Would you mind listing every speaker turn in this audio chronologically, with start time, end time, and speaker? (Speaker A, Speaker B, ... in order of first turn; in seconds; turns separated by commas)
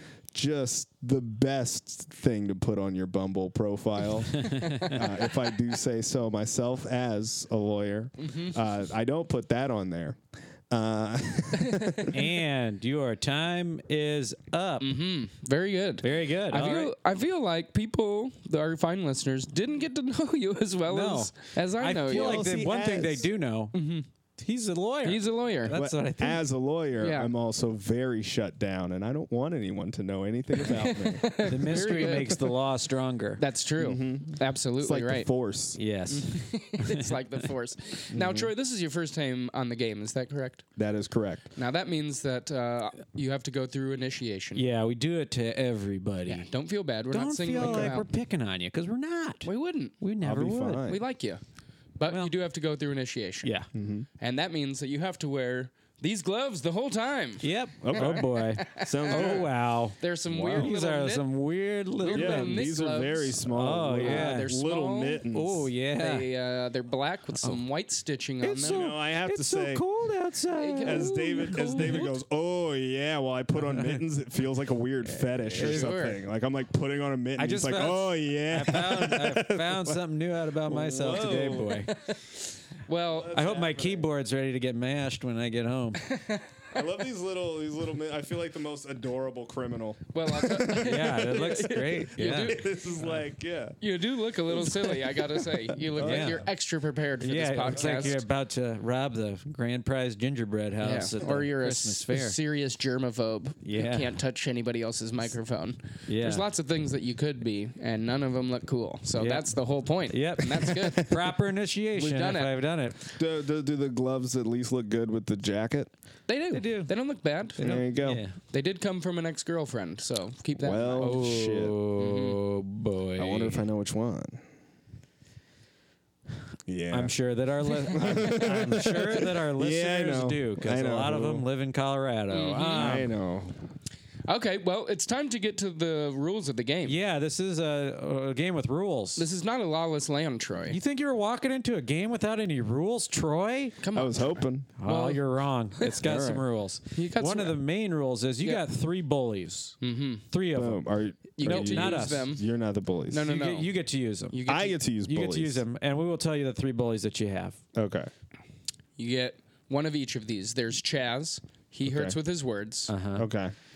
Speaker A: 0.3-12.2, Speaker B: 4.3-5.0, Speaker C: 4.7-4.9, Speaker C: 8.2-8.5, Speaker C: 11.6-12.1, Speaker B: 12.1-14.9, Speaker C: 14.8-22.4, Speaker B: 16.0-16.9, Speaker B: 20.9-23.8, Speaker A: 22.1-23.3, Speaker C: 23.7-24.1, Speaker B: 24.4-26.4, Speaker C: 25.0-25.8, Speaker A: 25.7-32.3, Speaker C: 27.0-27.3, Speaker C: 30.6-32.5, Speaker B: 31.4-33.4, Speaker C: 33.4-35.3, Speaker A: 33.8-35.8, Speaker B: 35.8-37.5, Speaker C: 36.1-40.6, Speaker A: 38.1-38.5, Speaker A: 40.8-41.5, Speaker C: 41.6-44.7, Speaker B: 44.6-46.5, Speaker C: 46.3-48.1, Speaker B: 47.1-49.5, Speaker A: 47.6-48.0, Speaker C: 49.4-49.9, Speaker B: 50.0-50.9, Speaker A: 50.2-51.0, Speaker C: 50.9-51.4, Speaker C: 52.0-53.5, Speaker B: 53.4-53.7, Speaker A: 53.7-54.1, Speaker C: 54.2-61.3, Speaker B: 57.4-60.0, Speaker A: 57.8-59.5, Speaker A: 60.3-60.7, Speaker B: 60.5-62.8, Speaker C: 62.0-65.2, Speaker A: 62.1-65.7, Speaker B: 63.5-64.5, Speaker B: 65.3-66.3, Speaker C: 66.0-68.8, Speaker B: 68.4-72.1, Speaker A: 68.6-69.8, Speaker C: 70.6-72.1, Speaker A: 70.8-80.0, Speaker B: 73.7-74.0, Speaker B: 75.5-76.0, Speaker C: 75.5-76.2, Speaker B: 77.4-82.0, Speaker A: 80.7-81.9, Speaker C: 82.9-83.3, Speaker A: 83.2-84.1, Speaker B: 83.3-86.1, Speaker C: 86.0-86.5, Speaker A: 86.7-93.8, Speaker C: 90.1-92.7, Speaker B: 90.6-92.6, Speaker C: 93.8-98.2, Speaker A: 95.5-96.4, Speaker B: 96.0-96.5, Speaker B: 97.2-102.4, Speaker C: 100.8-111.3, Speaker B: 103.6-104.1, Speaker B: 106.1-106.5, Speaker B: 109.2-109.5, Speaker B: 110.1-113.0, Speaker C: 112.0-112.6, Speaker A: 113.2-115.9, Speaker C: 116.3-117.9, Speaker B: 116.5-116.9, Speaker A: 117.6-118.2, Speaker B: 117.6-118.3, Speaker C: 118.5-121.2, Speaker A: 120.6-121.8, Speaker B: 121.0-123.6, Speaker C: 122.0-122.4, Speaker A: 123.2-124.4, Speaker A: 126.7-127.2, Speaker B: 126.9-133.1, Speaker A: 127.7-131.5, Speaker C: 132.3-133.0, Speaker A: 132.7-133.6, Speaker C: 134.3-137.0, Speaker B: 136.9-139.2, Speaker C: 139.2-140.8, Speaker B: 140.7-143.8, Speaker C: 143.8-145.2, Speaker A: 143.9-144.7, Speaker B: 144.8-149.8, Speaker A: 145.9-146.4, Speaker C: 146.9-147.6, Speaker C: 149.8-150.2, Speaker B: 150.3-150.9, Speaker A: 150.5-153.3, Speaker C: 151.4-152.4, Speaker B: 151.4-152.3, Speaker C: 153.1-153.7, Speaker B: 153.2-154.4, Speaker C: 154.3-154.8, Speaker A: 154.5-155.6, Speaker B: 155.1-157.6, Speaker A: 157.8-158.1, Speaker C: 159.0-162.9, Speaker A: 161.8-162.2, Speaker B: 162.9-163.3, Speaker A: 163.2-163.5